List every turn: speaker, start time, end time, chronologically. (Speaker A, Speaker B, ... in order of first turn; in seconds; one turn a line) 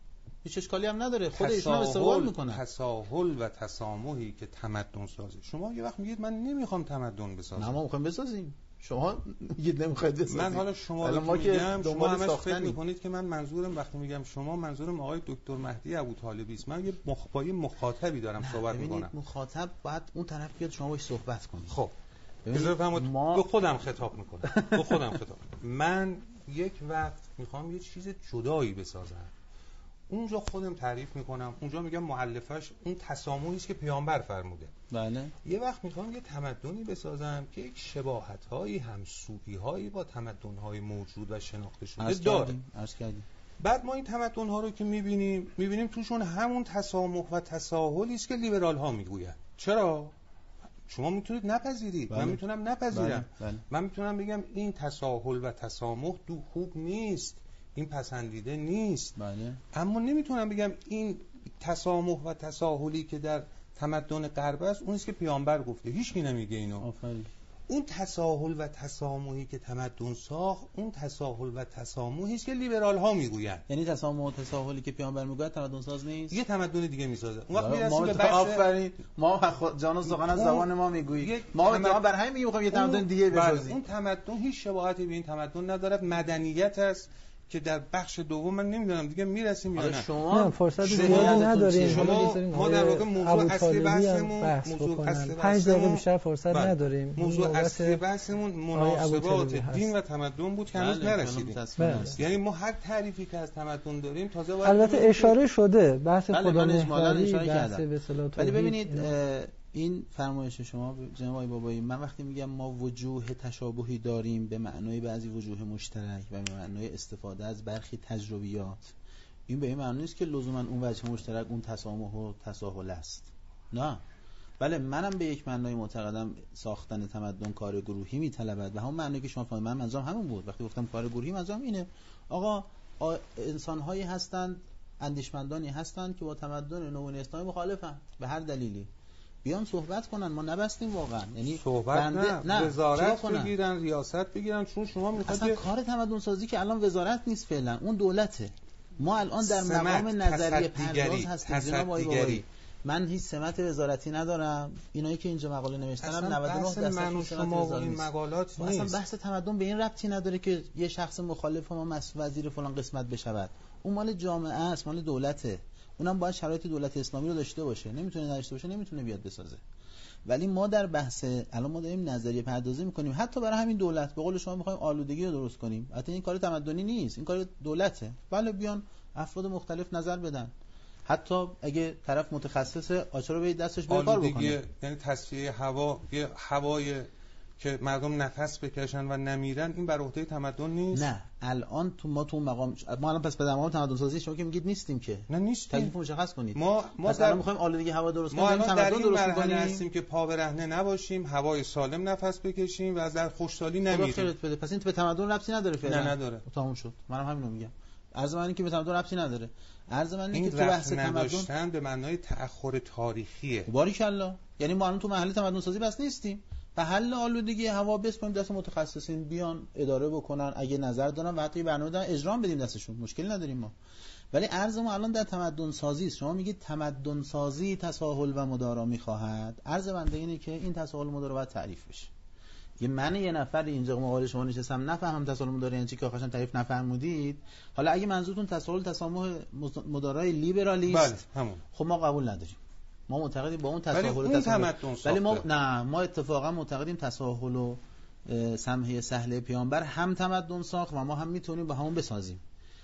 Speaker A: 0.4-2.6
Speaker B: 1.3-7.8
Speaker A: 7.6-12.8
Speaker B: 10.3-19.1
Speaker A: 18.4-21.8
Speaker B: 21.7-21.9
Speaker A: 22.4-23.5
Speaker B: 22.5-29.3
Speaker A: 24.4-25.2
Speaker B: 30.1-34.7
Speaker A: 34.9-35.3
Speaker B: 35.4-42.5
Speaker A: 42.0-43.2
Speaker B: 43.6-50.1
Speaker B: 50.9-59.2
Speaker A: 52.1-53.6
Speaker A: 59.2-59.6
Speaker B: 59.7-66.9
Speaker A: 66.8-67.3
Speaker B: 67.7-73.7
Speaker A: 73.7-76.4
Speaker B: 76.3-78.7
Speaker A: 77.5-83.8
Speaker B: 80.1-80.7
Speaker B: 81.2-82.0
Speaker B: 82.7-90.1
Speaker A: 89.8-92.4
Speaker C: 90.3-98.0
Speaker B: 90.9-101.6
Speaker C: 98.7-99.9
Speaker A: 100.7-102.3
Speaker C: 101.8-102.1
Speaker B: 102.2-105.4
Speaker C: 104.6-109.1
Speaker A: 106.3-118.9
Speaker A: 119.5-124.0
Speaker A: 124.6-138.9
Speaker A: 139.4-143.5
Speaker B: 141.5-145.6
Speaker A: 145.2-169.6
Speaker B: 149.4-152.4
Speaker B: 156.0-159.0
Speaker A: 170.3-180.5
Speaker A: 181.1-184.6
Speaker B: 183.9-187.1
Speaker B: 187.6-191.1
Speaker A: 190.9-199.9
Speaker B: 195.3-195.9
Speaker B: 196.5-197.4
Speaker B: 198.3-204.3
Speaker A: 203.9-211.5
Speaker B: 205.8-206.4
Speaker B: 210.3-213.7
Speaker A: 213.7-223.8
Speaker A: 224.3-232.1
Speaker A: 232.8-241.2
Speaker B: 240.9-241.6
Speaker A: 241.7-252.4
Speaker B: 243.9-245.5